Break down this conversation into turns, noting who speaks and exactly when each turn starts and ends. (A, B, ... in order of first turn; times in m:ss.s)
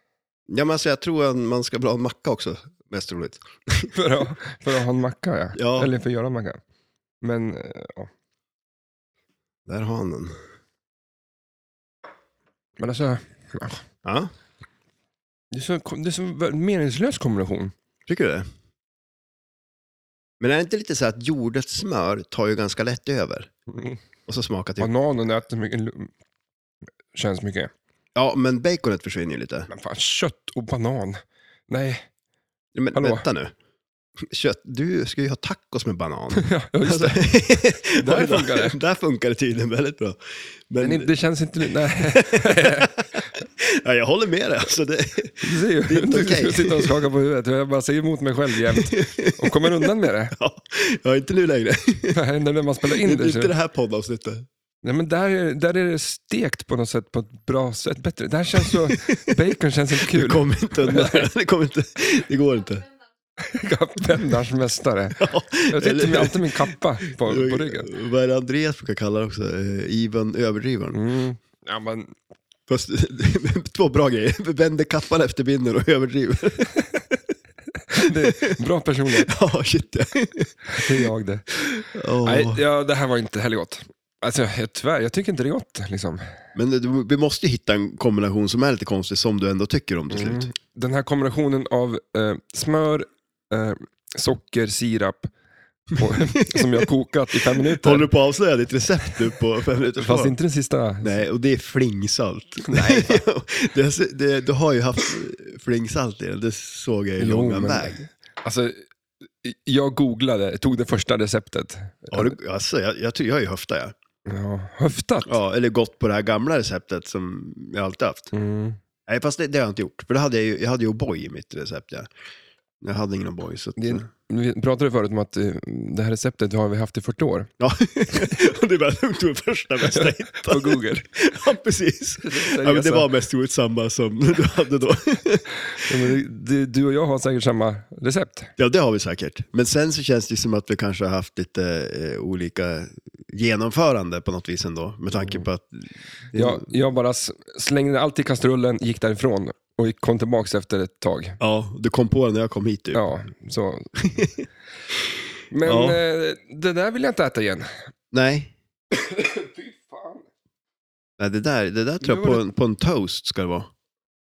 0:00.5-0:03.9 A
0:03.9-0:06.6 B
0:05.6-0:05.9 A
0:07.2-0:08.1 B
0:09.6-0:10.3 A
0:12.8-0:13.8 B
0:14.0-0:14.3 A
0:15.5-0:17.7 B
0:18.1-0:18.4 A
0:20.4-0:23.5 A
0:23.7-0:24.0 B
0:24.3-0:24.9 A
0:24.8-0:26.1 B
0:27.1-0:27.7 B
0:28.1-0:29.7 A
0:29.7-0:32.1 B
0:32.7-0:33.5 A
0:32.9-0:33.2 B
0:34.2-0:41.1 A
0:36.3-0:37.3 B
0:37.9-0:38.8 B
0:40.8-0:43.0 B
0:42.0-0:47.0 A
0:45.4-0:50.3 B
0:48.6-0:52.2 A
0:52.1-0:53.5 B
0:52.9-0:54.4 A
0:54.8-1:01.3 B
0:58.6-0:59.4 A
1:00.0-1:02.9 A
1:03.4-1:07.9 B
1:05.2-1:11.0 A
1:10.9-1:12.1 B
1:12.7-1:17.2 A
1:17.9-1:19.3 B
1:18.1-1:18.6 A
1:19.1-1:20.9 A
1:20.7-1:21.6 B
1:21.6-1:22.6 A
1:22.2-1:26.2 B
1:26.5-1:30.4 A
1:30.1-1:35.3 B
1:35.9-1:38.1 B
1:36.1-1:36.8 A
1:37.7-1:40.4 A
1:40.0-1:41.2 B
1:41.0-1:48.0 A
1:42.6-1:43.2 B
1:47.2-1:48.8 B
1:49.4-1:52.3 B
1:52.1-1:53.9 A
1:54.2-1:55.3 B
1:55.2-1:58.3 A
1:58.3-1:58.8 B
1:59.1-2:02.1 A
2:02.8-2:04.0 A
2:03.8-2:07.5 B
2:07.6-2:16.1 A
2:09.8-2:11.1 B
2:12.2-2:13.1 B
2:15.7-2:18.5 B
2:18.6-2:26.7 A
2:26.3-2:31.4 B
2:31.4-2:33.0 A
2:32.9-2:33.9 B
2:34.0-2:34.3 A
2:35.5-2:37.7 B
2:35.6-2:36.0 A
2:38.1-2:38.5 A
2:38.9-2:40.3 B
2:41.2-2:43.7 A
2:42.0-2:42.4 B